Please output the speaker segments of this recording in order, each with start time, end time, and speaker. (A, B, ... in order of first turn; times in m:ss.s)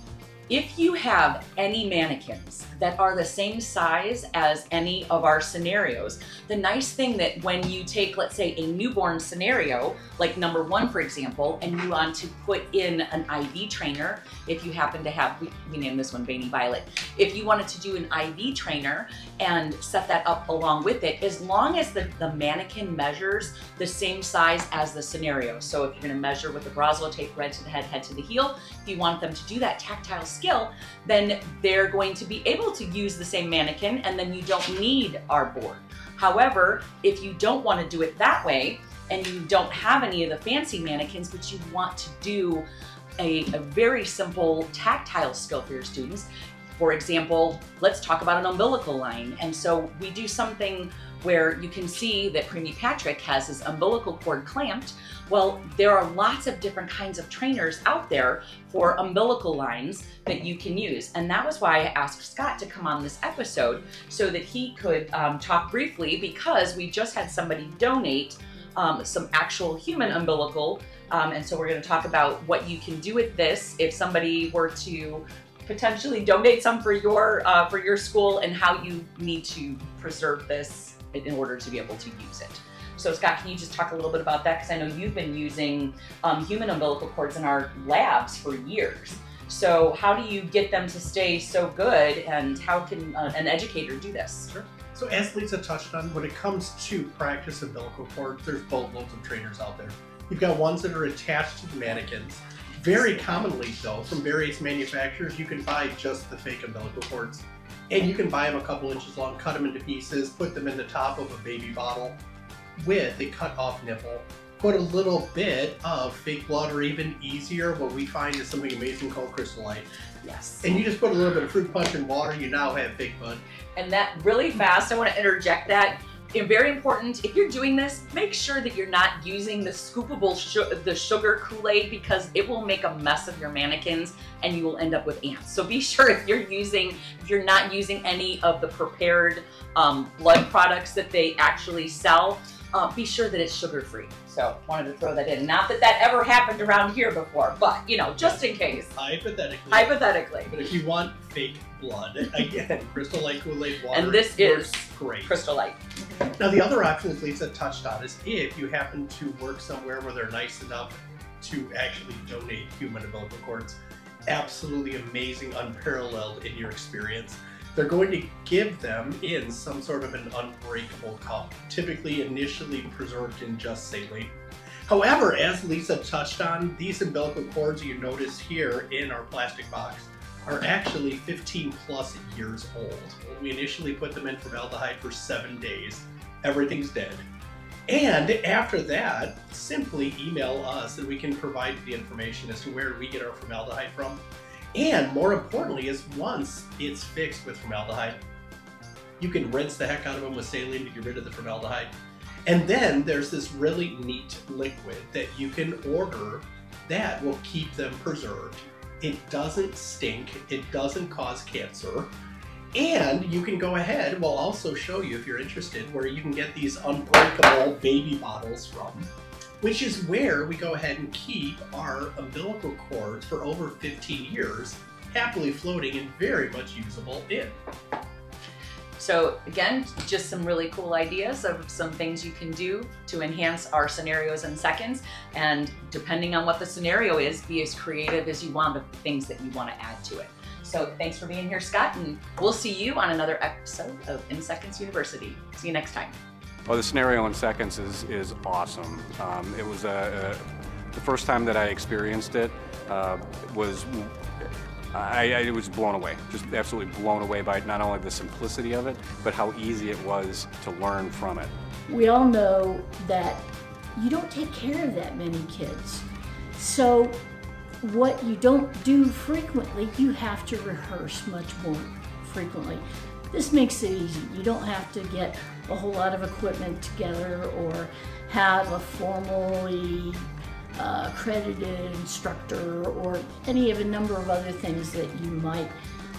0:00.5-0:42.6 A
0:43.2-1:34.5 A
1:34.5-1:52.2 B
1:52.8-1:59.9 B
2:00.2-2:00.6 A
2:00.6-2:03.4 B
2:03.7-2:28.9 A
2:28.2-2:30.0 B
2:29.7-2:30.6 A
2:30.5-2:35.5 B
2:33.9-2:36.3 A
2:36.4-2:54.3 B
2:54.8-3:07.2 B
3:07.9-3:14.2 B
3:14.7-3:18.2 B
3:19.2-3:21.9 B
3:22.4-3:32.1 B
3:32.7-3:39.1 B
3:39.6-3:47.6 B
3:49.0-4:06.1 A
4:06.7-4:10.4 C
4:11.0-4:14.1 C
4:14.9-4:21.5 C
4:21.9-4:26.0 D
4:26.6-4:27.2 D
4:27.8-4:45.7 D